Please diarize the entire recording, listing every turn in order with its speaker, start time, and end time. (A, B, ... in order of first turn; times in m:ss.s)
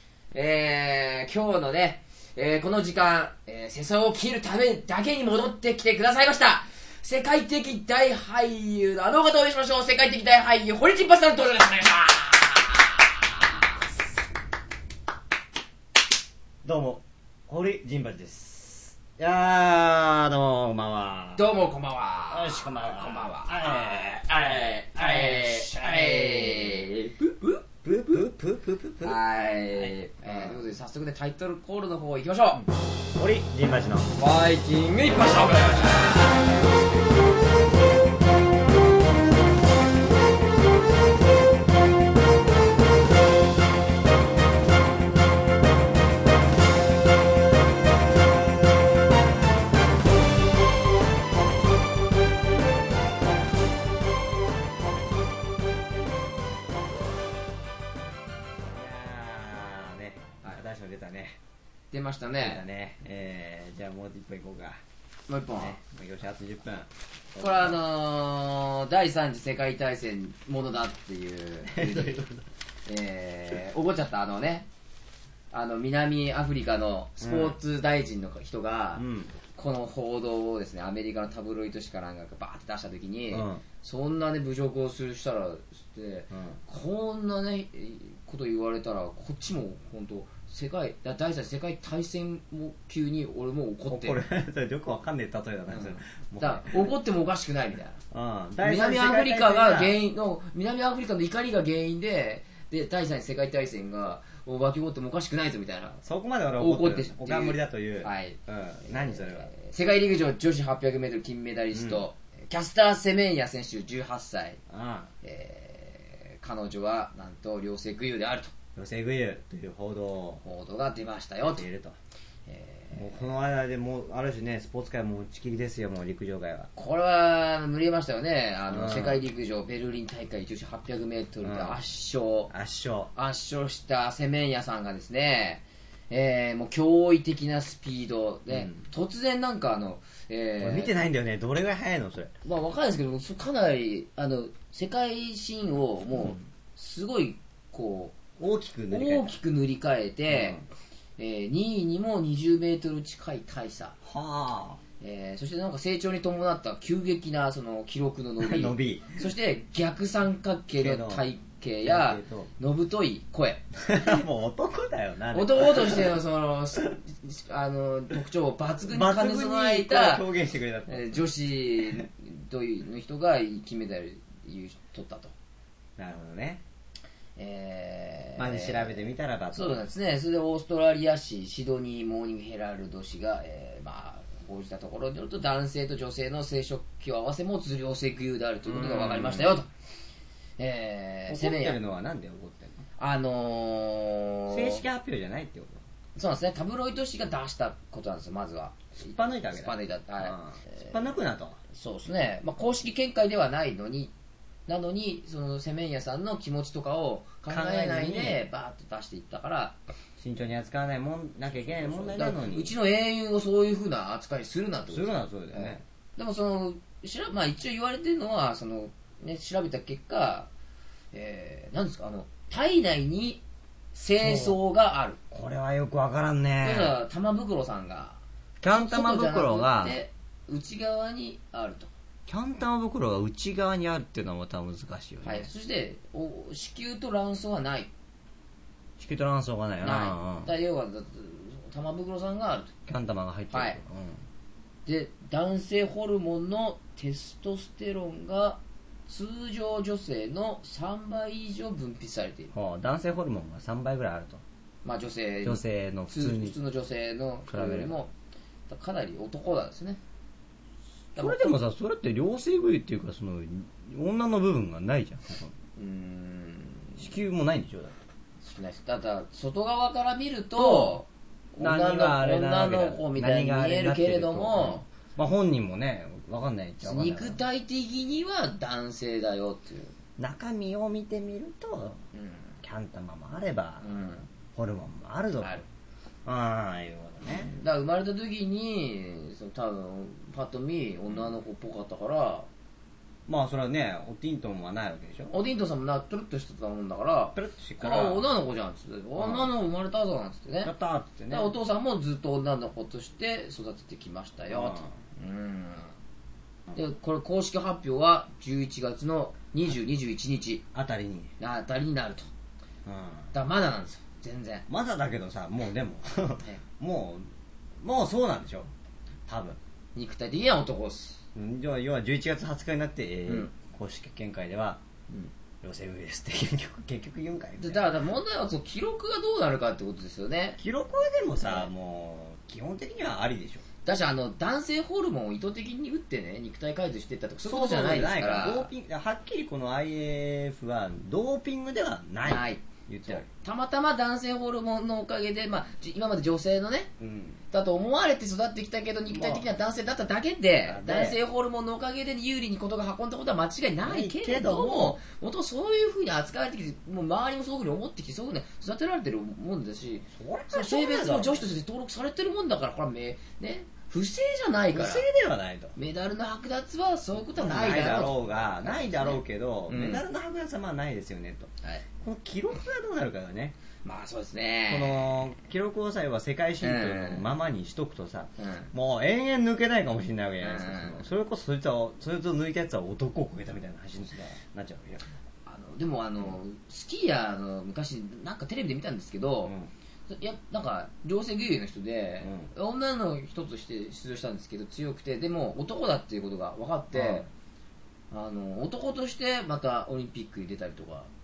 0:00.3-0:13.8 A
0:16.6-0:21.5 B
0:21.4-0:28.2 A
0:22.3-0:26.9 B
0:27.8-0:29.2 B
0:29.0-0:32.6 A
0:29.7-0:30.6 B
0:33.2-0:34.1 B
0:34.2-0:36.6 A
0:58.7-1:01.4 B
1:01.9-1:02.6 A
1:02.4-1:04.8 B
1:05.3-1:05.8 A
1:05.6-1:07.8 B
1:07.4-1:12.2 A
1:11.7-1:12.4 B
1:12.8-1:14.7 A
1:15.5-1:34.2 A
1:17.2-1:17.6 B
1:19.0-1:19.3 B
1:23.3-1:23.6 B
1:26.3-1:26.6 B
1:33.9-1:36.9 B
1:35.7-1:38.0 A
1:38.1-1:40.0 B
1:38.6-1:46.0 A
1:46.0-1:49.5 B
1:46.6-1:54.6 A
1:51.7-1:52.0 B
1:54.7-1:55.1 B
1:55.2-1:58.5 A
1:58.7-2:00.4 B
2:00.4-2:01.6 A
2:01.4-2:02.0 B
2:02.5-2:03.2 A
2:02.9-2:06.7 B
2:06.7-2:12.5 A
2:08.7-2:09.2 B
2:11.4-2:11.8 B
2:12.5-2:13.1 B
2:13.1-2:20.9 A
2:18.5-2:18.8 B
2:20.6-2:22.3 B
2:22.4-2:28.2 A
2:28.4-2:29.3 B
2:28.9-2:30.6 A
2:30.3-2:30.6 B
2:31.2-2:34.0 A
2:34.0-2:34.8 B
2:35.0-2:44.2 A
2:38.4-2:39.2 B
2:40.7-2:41.2 B
2:41.8-2:42.5 B
2:43.8-2:46.2 B
2:45.3-2:50.2 A
2:48.9-2:51.2 B
2:50.9-2:55.3 A
2:56.0-2:56.6 B
2:57.4-3:09.7 A
2:58.4-2:59.8 B
3:08.6-3:09.6 B
3:10.6-3:11.8 A
3:11.3-3:12.8 B
3:13.0-3:14.8 A
3:14.5-3:15.8 B
3:16.2-3:20.9 A
3:19.0-3:21.6 B
3:21.7-3:24.1 A
3:24.7-3:29.8 A
3:27.5-3:28.4 B
3:30.2-3:32.7 B
3:31.7-3:40.5 A
3:34.9-3:35.8 B
3:41.1-3:43.4 A
3:43.9-3:45.2 A
3:44.2-3:44.6 B
3:45.3-3:46.9 B
3:46.6-3:51.9 A
3:48.6-3:50.0 B
3:52.3-3:55.5 B
3:55.2-3:57.9 A
3:59.0-4:00.5 B
3:59.8-4:02.7 A
4:02.9-4:04.2 B
4:03.5-4:03.8 A
4:04.8-4:12.5 A
4:12.5-4:14.4 B
4:14.8-4:18.1 A
4:15.4-4:16.6 B
4:17.5-4:18.0 B
4:18.7-4:20.0 A
4:21.2-4:21.5 A
4:21.2-4:25.5 B
4:25.8-4:27.1 A
4:27.0-4:28.0 B
4:28.4-4:34.8 A
4:30.5-4:31.0 B
4:31.6-4:37.4 B
4:36.8-4:39.9 A
4:40.2-4:42.0 B
4:42.1-4:42.6 A
4:42.6-4:43.9 B
4:43.8-4:44.3 A
4:44.5-4:45.6 B
4:46.2-4:47.5 B
4:47.3-4:52.5 A
4:53.3-4:55.3 B
4:55.3-5:00.7 A
4:57.3-4:58.3 B
4:59.2-4:59.5 B
5:00.6-5:01.5 B
5:01.3-5:05.9 A
5:04.5-5:04.9 B
5:06.7-5:10.6 A
5:10.7-5:11.3 B
5:11.4-5:12.3 A
5:12.8-5:13.3 B
5:13.3-5:14.6 A
5:14.7-5:17.3 B
5:17.8-5:18.7 B
5:19.3-5:19.6 B
5:19.9-5:21.2 A
5:21.3-5:24.8 B
5:23.2-5:23.5 A
5:25.6-5:27.9 B
5:27.6-5:30.6 A
5:30.6-5:33.6 B
5:31.4-5:31.7 A
5:33.8-5:38.7 A
5:37.4-5:43.2 B
5:42.2-5:46.9 A
5:47.0-5:47.4 B
5:47.5-6:05.0 A
5:49.1-5:49.5 B
5:50.6-5:51.2 B
5:53.8-5:55.0 B
6:00.1-6:01.5 B
6:04.7-6:05.7 B
6:05.8-6:10.0 A
6:07.3-6:11.5 B
6:12.0-6:13.5 B
6:13.8-6:15.1 A
6:14.7-6:25.0 B
6:16.6-6:17.3 A
6:18.4-6:18.7 A
6:20.4-6:21.0 A
6:25.4-6:29.5 A
6:29.4-6:29.7 B
6:30.1-6:37.2 A
6:32.2-6:32.5 B
6:36.9-6:37.3 B
6:38.1-6:41.1 A